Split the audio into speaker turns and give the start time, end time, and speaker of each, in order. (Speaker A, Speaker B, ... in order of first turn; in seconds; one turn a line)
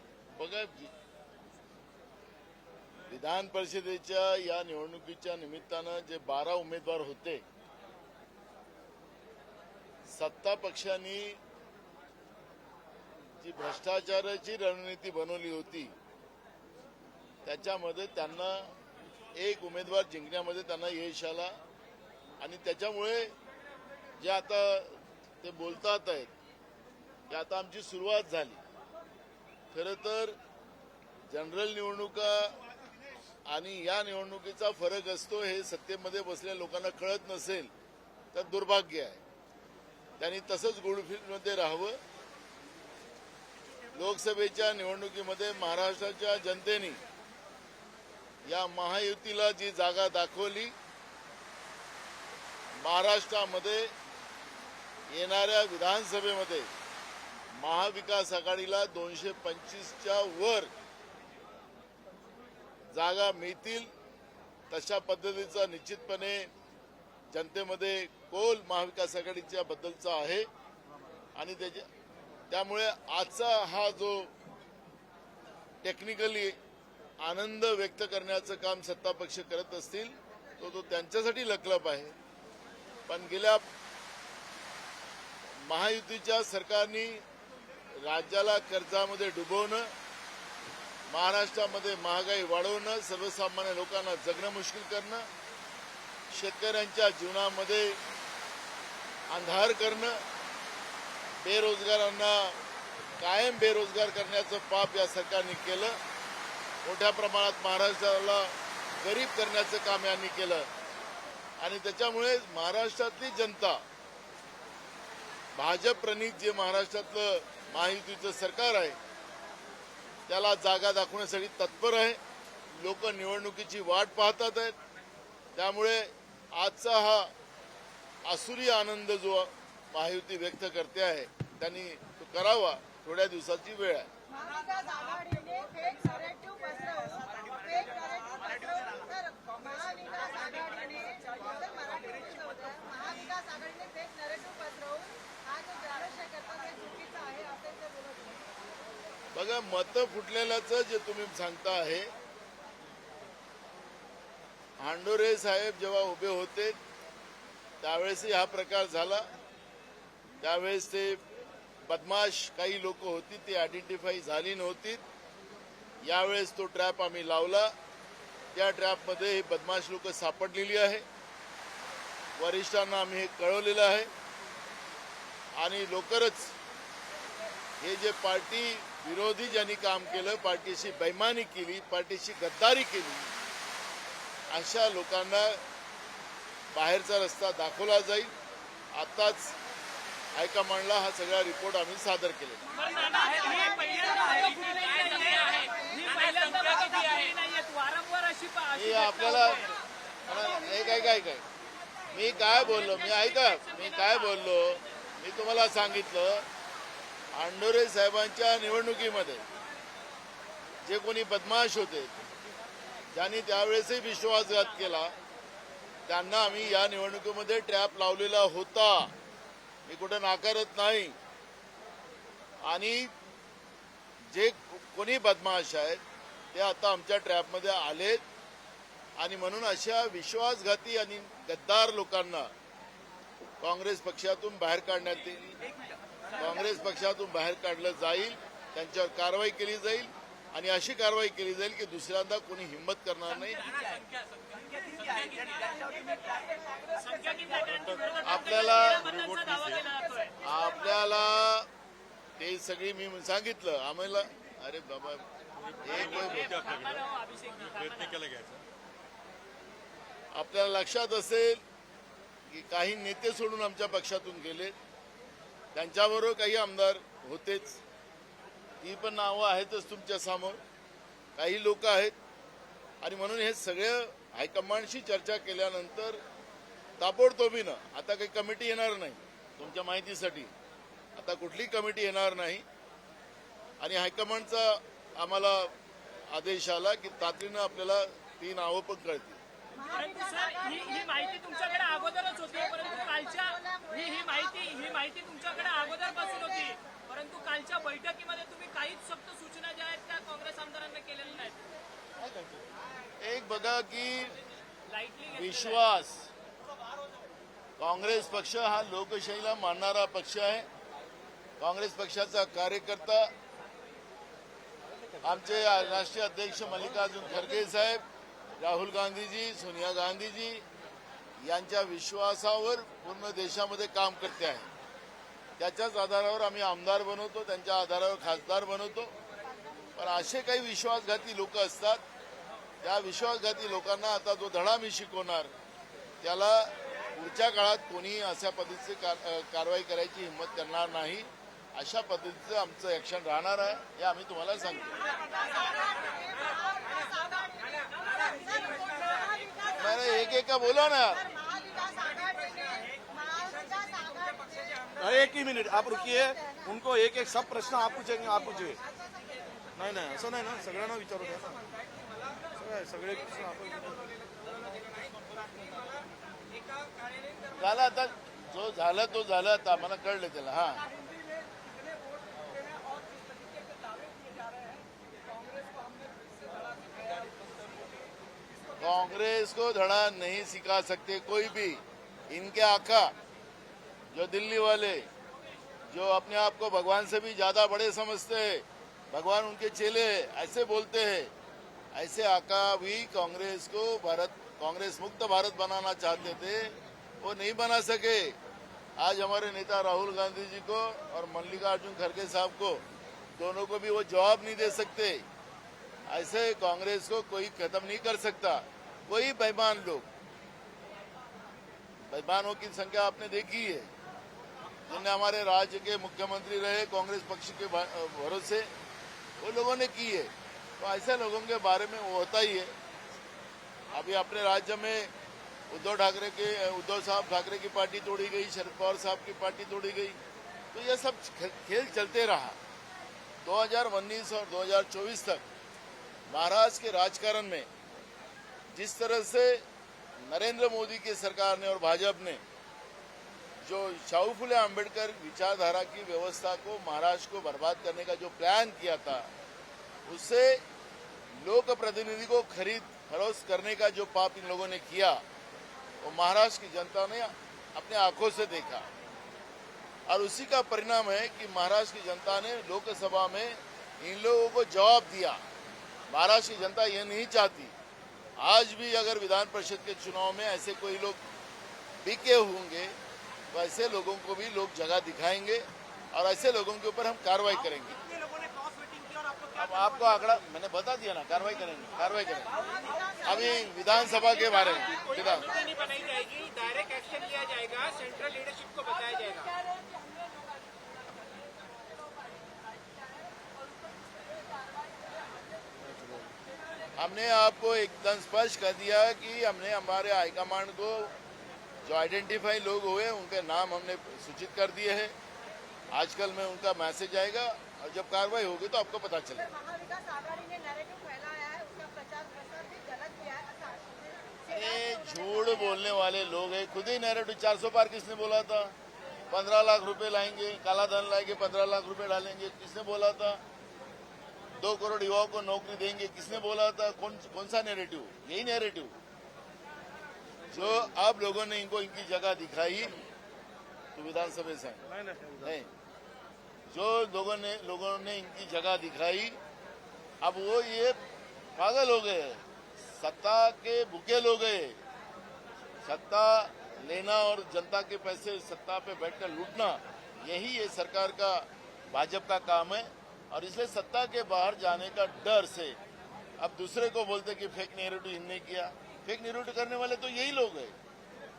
Speaker A: 0.3-0.9
Speaker A: 3.1-7.4
Speaker A: 10.1-11.4
Speaker A: 13.4-15.9
Speaker A: 17.4-18.7
Speaker A: 19.3-21.5
Speaker A: 22.4-23.3
Speaker A: 24.2-26.3
Speaker A: 27.3-28.6
Speaker A: 29.7-30.4
Speaker A: 31.3-32.6
Speaker A: 33.5-37.7
Speaker A: 38.3-39.2
Speaker A: 40.2-42.0
Speaker A: 43.9-47.0
Speaker A: 48.5-50.7
Speaker A: 52.8-53.9
Speaker A: 55.1-56.7
Speaker A: 57.6-60.7
Speaker A: 62.9-63.9
Speaker A: 64.7-66.5
Speaker A: 67.3-70.5
Speaker A: 71.3-71.8
Speaker A: 72.5-74.3
Speaker A: 75.8-76.6
Speaker A: 77.2-82.1
Speaker A: 83.1-83.7
Speaker A: 85.6-87.2
Speaker A: 87.9-89.9
Speaker A: 91.1-95.3
Speaker A: 96.3-98.0
Speaker A: 99.3-100.2
Speaker A: 101.4-102.6
Speaker A: 103.2-106.0
Speaker A: 106.8-110.7
Speaker A: 111.6-113.8
Speaker A: 115.5-119.0
Speaker A: 120.3-122.2
Speaker A: 122.8-124.7
Speaker A: 125.5-127.3
Speaker A: 128.2-134.1
Speaker B: 134.3-148.4
Speaker A: 149.3-152.1
Speaker A: 154.8-156.8
Speaker A: 157.8-159.3
Speaker A: 160.4-161.2
Speaker A: 161.8-165.0
Speaker A: 166.0-167.7
Speaker A: 168.5-171.0
Speaker A: 172.4-174.1
Speaker A: 175.6-176.5
Speaker A: 177.8-183.3
Speaker A: 184.5-185.6
Speaker A: 186.7-188.3
Speaker A: 188.9-189.6
Speaker A: 190.3-192.6
Speaker C: 192.7-199.7
Speaker B: 193.0-194.5
Speaker A: 198.7-199.7
Speaker A: 200.2-201.4
Speaker A: 202.1-206.5
Speaker C: 202.6-204.4
Speaker A: 207.3-209.4
Speaker A: 210.8-212.1
Speaker A: 213.1-215.2
Speaker A: 216.1-219.1
Speaker A: 219.9-221.2
Speaker A: 222.6-223.1
Speaker A: 224.3-226.0
Speaker A: 226.5-228.2
Speaker A: 229.2-232.5
Speaker A: 233.6-235.6
Speaker A: 236.3-243.7
Speaker C: 246.9-250.3
Speaker A: 248.2-249.1
Speaker A: 250.4-251.7
Speaker A: 252.4-255.2
Speaker A: 255.8-256.8
Speaker C: 255.9-258.5
Speaker D: 258.3-258.6
Speaker A: 260.3-261.6
Speaker A: 262.5-264.8
Speaker A: 265.7-267.8
Speaker A: 268.8-270.6
Speaker A: 271.4-272.1
Speaker A: 273.0-276.2
Speaker A: 277.0-280.5
Speaker A: 281.1-282.6
Speaker A: 283.8-285.7
Speaker A: 286.3-289.4
Speaker B: 289.8-294.7
Speaker C: 289.9-301.6
Speaker B: 296.2-296.8
Speaker A: 303.2-304.4
Speaker C: 304.9-305.8
Speaker A: 305.3-306.3
Speaker A: 307.8-310.7
Speaker A: 311.6-313.3
Speaker A: 315.2-318.0
Speaker A: 318.6-320.6
Speaker A: 321.4-324.7
Speaker A: 325.6-329.1
Speaker A: 329.9-332.0
Speaker A: 332.8-335.5
Speaker A: 336.2-344.9
Speaker B: 345.0-350.3
Speaker A: 349.8-351.2
Speaker B: 351.0-355.0
Speaker E: 355.0-358.8
Speaker B: 355.8-356.7
Speaker B: 358.7-359.4
Speaker E: 359.8-361.6
Speaker E: 362.5-364.4
Speaker A: 367.5-370.9
Speaker A: 378.8-383.1
Speaker A: 384.1-385.1
Speaker A: 385.9-391.3
Speaker A: 391.9-398.4
Speaker A: 399.0-402.8
Speaker A: 403.4-405.2
Speaker A: 406.1-410.1
Speaker A: 412.1-413.9
Speaker A: 414.9-418.7
Speaker A: 419.4-422.7
Speaker A: 423.9-425.1
Speaker A: 425.7-430.2
Speaker A: 430.7-432.6
Speaker A: 433.4-435.4
Speaker A: 436.3-437.7
Speaker A: 438.7-439.6
Speaker A: 440.2-442.4
Speaker A: 443.6-449.3
Speaker A: 450.1-450.6
Speaker A: 451.3-455.2
Speaker A: 456.0-458.9
Speaker A: 460.1-465.4
Speaker A: 466.1-467.7
Speaker A: 468.4-471.2
Speaker A: 472.0-472.9
Speaker A: 473.5-478.0
Speaker A: 479.5-482.5
Speaker B: 482.9-483.2
Speaker A: 483.2-485.7
Speaker D: 485.6-489.5
Speaker E: 495.9-496.3
Speaker A: 497.0-501.1
Speaker A: 501.8-505.1
Speaker A: 505.9-509.5
Speaker B: 509.4-515.9
Speaker A: 514.5-518.7
Speaker A: 519.3-523.4
Speaker A: 524.6-529.0
Speaker A: 530.5-533.0
Speaker A: 533.9-534.8
Speaker E: 535.0-535.5
Speaker A: 535.4-535.7
Speaker A: 536.7-539.4
Speaker A: 540.2-541.0
Speaker A: 541.5-544.8
Speaker A: 545.8-555.8
Speaker A: 556.4-560.7